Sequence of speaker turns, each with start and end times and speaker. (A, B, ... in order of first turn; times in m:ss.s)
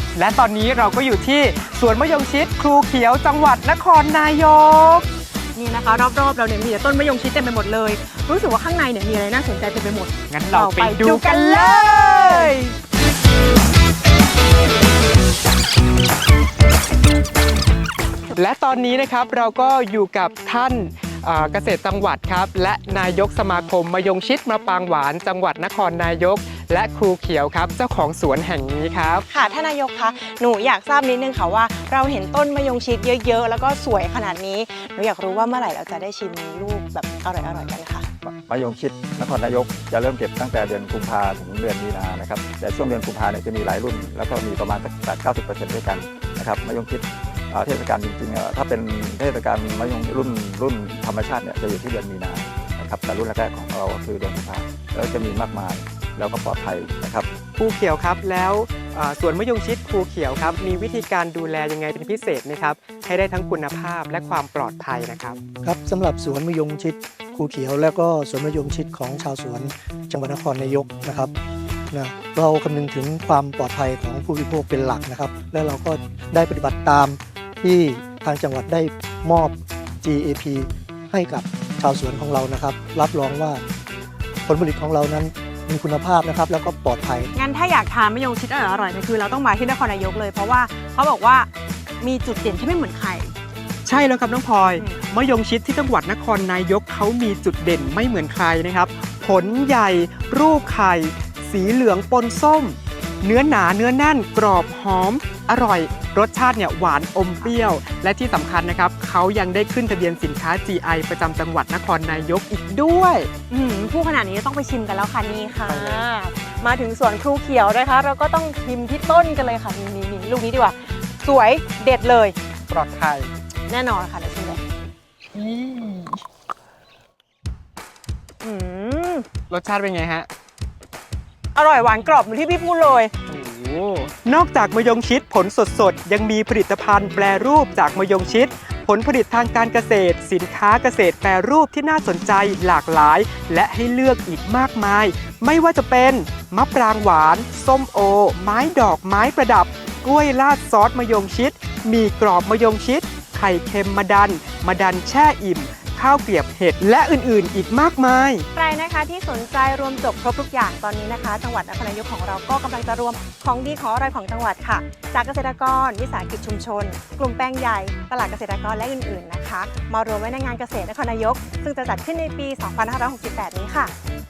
0:00.1-0:05.1 A
0:05.6-0:12.6 B
0:10.3-0:12.6 A
0:18.4-0:29.2 A
0:29.3-0:38.1 B
0:38.2-0:57.3 C
0:57.6-1:05.4 A
1:05.6-1:11.3 D
1:11.9-1:23.6 D
1:24.5-1:27.3 D
1:27.3-1:31.5 B
1:32.0-1:33.4 B
1:33.8-1:53.3 A
1:34.7-1:35.0 B
1:53.5-2:02.4 B
1:55.7-1:56.1 A
2:02.7-2:03.3 A
2:03.7-2:04.6 B
2:05.4-2:06.2 A
2:08.4-2:09.2 B
2:09.5-2:10.3 A
2:11.6-2:13.1 B
2:13.3-2:38.4 A
2:38.5-2:53.9 B